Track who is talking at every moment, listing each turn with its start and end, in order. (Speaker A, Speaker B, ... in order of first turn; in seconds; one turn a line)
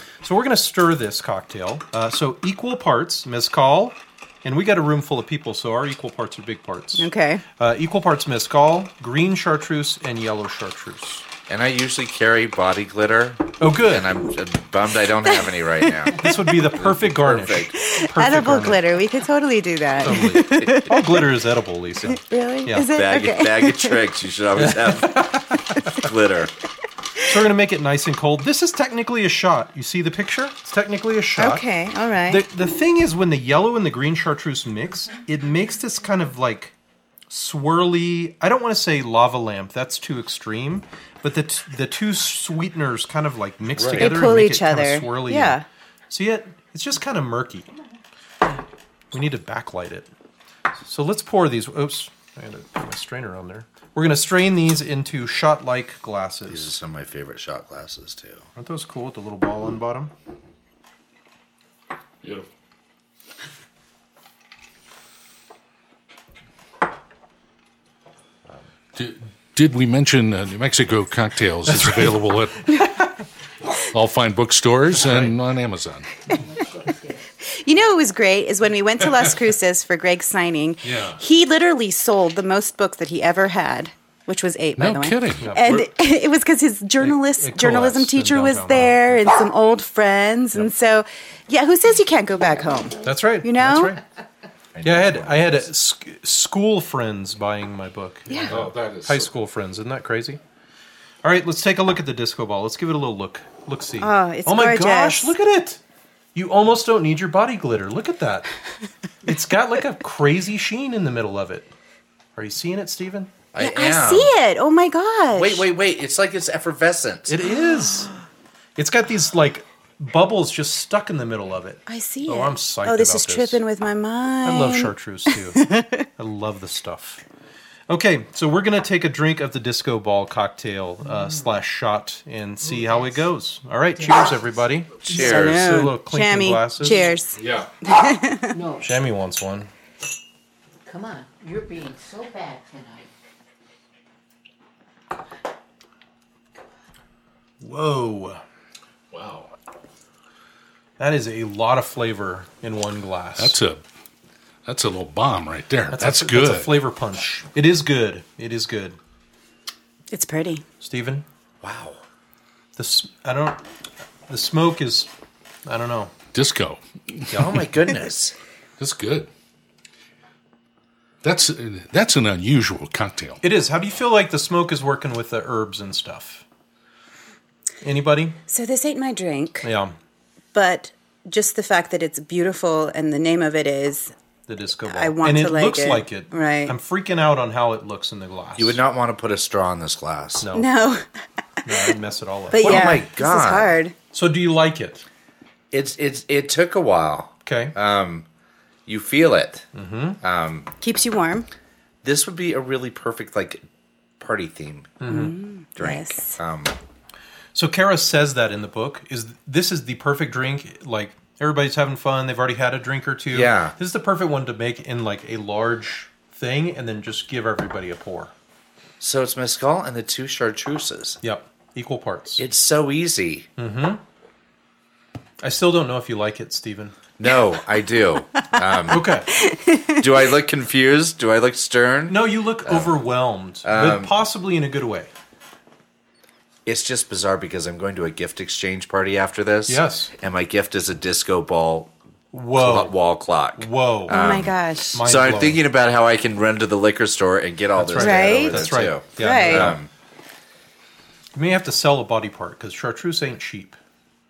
Speaker A: 0.2-11.2
Speaker B: 7.0-7.4
Speaker C: 11.5-17.8
Speaker A: 13.6-14.1
Speaker B: 16.0-16.3
Speaker A: 16.2-18.8
Speaker B: 17.7-21.4
Speaker A: 20.0-22.9
Speaker B: 22.1-24.0
Speaker C: 22.9-26.5
Speaker A: 24.6-25.9
Speaker A: 27.2-31.6
Speaker B: 31.4-32.5
Speaker A: 32.3-36.7
Speaker A: 37.3-45.6
Speaker D: 43.8-44.0
Speaker B: 44.0-45.6
Speaker A: 46.1-47.7
Speaker A: 49.1-50.1
Speaker A: 50.8-56.7
Speaker C: 56.5-58.5
Speaker A: 58.5-60.1
Speaker D: 68.9-72.8
Speaker D: 73.9-76.2
Speaker E: 76.5-77.2
Speaker B: 77.4-94.0
Speaker D: 80.8-81.2
Speaker D: 84.8-85.8
Speaker A: 85.4-85.9
Speaker A: 87.0-89.2
Speaker A: 93.0-94.0
Speaker C: 94.7-95.6
Speaker A: 94.8-100.4
Speaker B: 98.3-98.5
Speaker D: 98.5-99.3
Speaker A: 101.2-105.8
Speaker B: 104.0-105.3
Speaker A: 106.3-108.5
Speaker A: 109.2-111.7
Speaker A: 112.3-113.3
Speaker C: 113.5-114.3
Speaker B: 113.6-115.7
Speaker C: 115.3-117.4
Speaker A: 117.3-118.1
Speaker A: 118.8-123.6
Speaker B: 121.9-124.9
Speaker A: 124.4-127.2
Speaker B: 125.5-126.0
Speaker A: 127.9-137.1
Speaker C: 135.0-135.7
Speaker B: 135.1-138.6
Speaker D: 137.3-137.7
Speaker E: 138.5-139.0
Speaker A: 138.8-139.7
Speaker E: 140.8-143.1
Speaker A: 147.6-148.4
Speaker D: 149.1-149.5
Speaker A: 151.0-153.6
Speaker D: 153.4-153.8
Speaker D: 154.6-156.8
Speaker A: 155.9-159.0
Speaker B: 160.1-160.6
Speaker A: 160.8-161.2
Speaker C: 161.6-162.0
Speaker A: 162.8-163.6
Speaker A: 164.3-165.1
Speaker A: 165.7-166.1
Speaker D: 166.3-167.6
Speaker A: 167.3-167.6
Speaker C: 167.3-168.3
Speaker D: 168.8-169.3
Speaker D: 171.2-173.4
Speaker A: 173.4-176.4
Speaker A: 177.8-178.4
Speaker B: 178.5-179.7
Speaker A: 179.6-179.9
Speaker B: 180.5-184.1
Speaker A: 184.5-188.8
Speaker B: 184.9-186.7
Speaker C: 188.6-190.5
Speaker A: 190.4-190.7
Speaker B: 190.5-191.1
Speaker A: 191.6-193.0
Speaker B: 192.5-193.9
Speaker C: 192.6-193.8
Speaker A: 194.1-195.0
Speaker C: 195.7-198.2
Speaker A: 197.4-197.7
Speaker C: 198.8-199.7
Speaker A: 199.7-200.2
Speaker C: 200.2-200.7
Speaker B: 200.8-201.5
Speaker C: 202.0-203.6
Speaker C: 204.2-205.0
Speaker A: 205.0-205.3
Speaker B: 205.1-206.4
Speaker C: 205.8-206.7
Speaker A: 207.5-218.3
Speaker C: 213.3-213.7
Speaker C: 219.0-221.2
Speaker A: 221.2-222.4
Speaker C: 222.4-223.5
Speaker A: 223.6-224.0
Speaker A: 225.4-226.9
Speaker C: 227.2-229.1
Speaker A: 228.9-229.3
Speaker B: 229.3-230.1
Speaker C: 230.0-232.9
Speaker A: 232.1-235.1
Speaker C: 233.6-234.1
Speaker C: 236.7-241.9
Speaker A: 239.7-240.1
Speaker A: 242.3-242.9
Speaker C: 242.5-249.9
Speaker A: 243.6-244.3
Speaker B: 244.1-245.0
Speaker A: 244.9-245.6
Speaker A: 247.7-249.8
Speaker B: 248.0-249.7
Speaker A: 251.3-253.8